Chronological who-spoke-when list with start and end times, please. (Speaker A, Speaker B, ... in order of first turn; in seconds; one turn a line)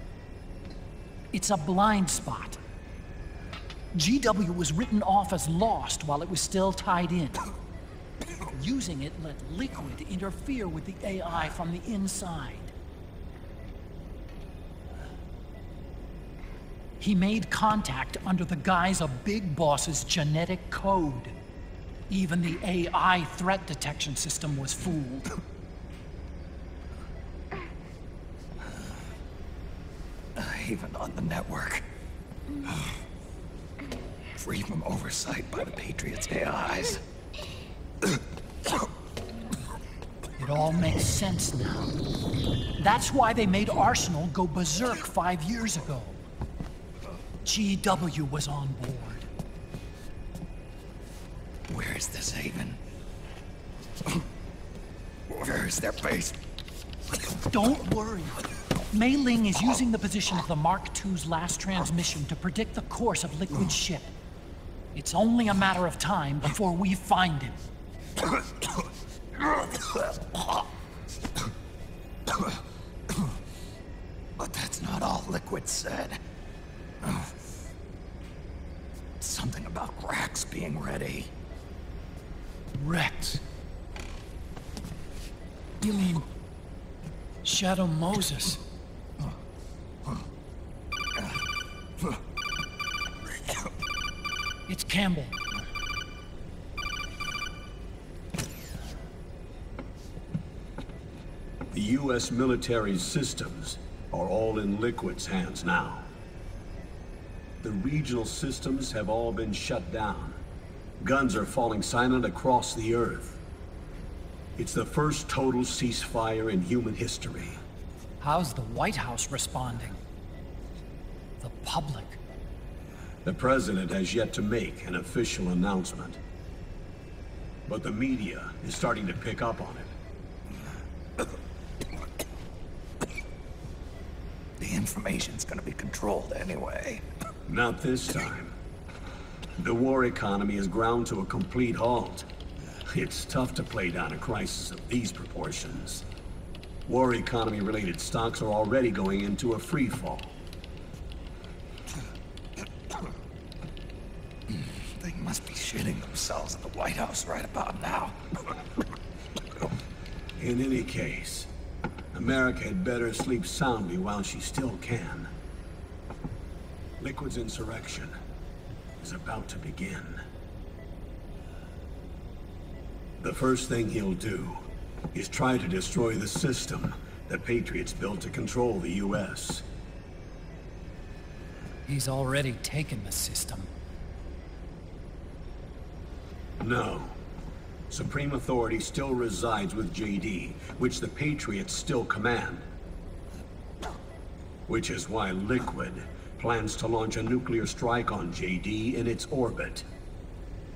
Speaker A: 1.3-2.6
Speaker A: 3.9-7.5
Speaker A: 8.5-12.7
Speaker A: 17.0-21.4
Speaker A: 22.1-25.3
Speaker B: 30.4-31.9
Speaker B: 34.4-37.0
Speaker A: 40.4-41.9
Speaker A: 42.8-46.2
Speaker A: 47.4-49.3
Speaker B: 51.7-52.8
Speaker B: 55.3-56.4
Speaker A: 57.3-64.1
Speaker A: 65.0-67.6
Speaker B: 69.5-70.4
Speaker B: 74.4-76.2
Speaker B: 77.0-77.4
Speaker B: 79.2-81.3
Speaker A: 82.8-83.4
Speaker A: 85.8-86.3
Speaker A: 87.4-88.6
Speaker A: 94.7-95.4
Speaker C: 101.7-106.1
Speaker C: 107.6-110.4
Speaker C: 111.0-113.4
Speaker C: 114.6-117.6
Speaker A: 118.2-120.0
Speaker A: 121.4-122.2
Speaker C: 123.2-126.2
Speaker C: 127.7-129.9
Speaker B: 134.6-137.0
Speaker C: 137.5-138.6
Speaker C: 139.6-142.3
Speaker C: 142.9-146.1
Speaker C: 146.9-150.3
Speaker B: 154.5-158.5
Speaker C: 160.4-161.5
Speaker C: 162.1-165.3
Speaker C: 167.0-168.2
Speaker C: 169.0-170.2
Speaker C: 173.2-179.7
Speaker A: 181.9-183.7
Speaker C: 186.6-187.2
Speaker C: 187.9-192.7
Speaker C: 194.7-199.9